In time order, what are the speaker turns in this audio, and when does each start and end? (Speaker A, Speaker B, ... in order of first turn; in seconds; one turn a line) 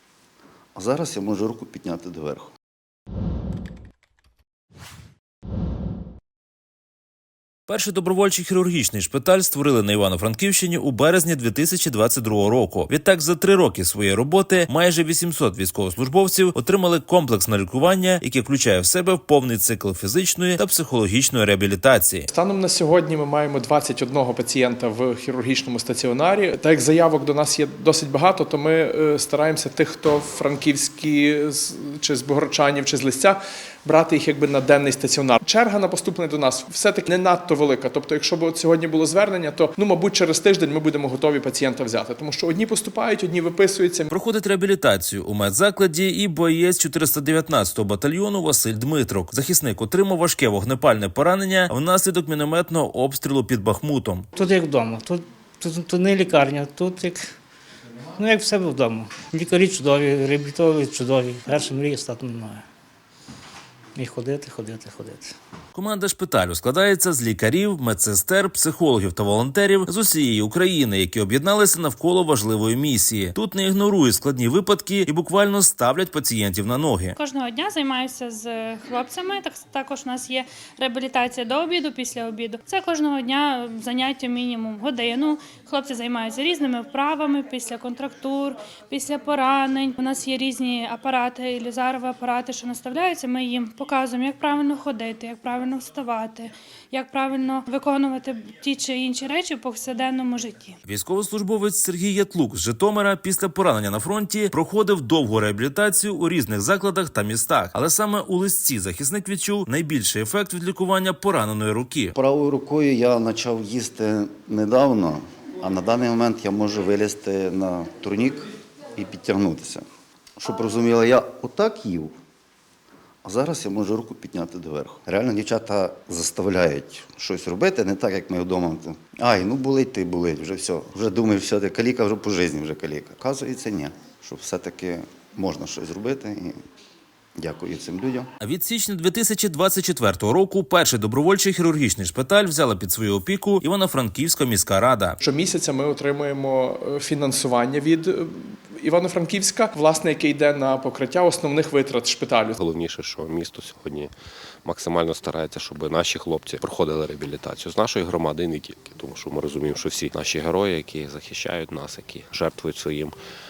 Speaker A: 0.8-2.5
Speaker B: 7.7-22.3
Speaker C: 22.3-44.1
Speaker B: 44.1-54.3
Speaker D: 54.4-57.3
Speaker D: 58.1-62.6
Speaker D: 64.0-65.3
Speaker B: 65.7-77.2
Speaker E: 77.2-100.8
Speaker B: 100.9-112.1
Speaker A: 112.2-119.8
Speaker A: 120.4-122.1
Speaker A: 123.2-136.6
Speaker A: 137.4-138.3
Speaker B: 138.4-145.2
Speaker C: 145.2-152.6
Speaker F: 152.6-154.1
Speaker F: 154.6-163.2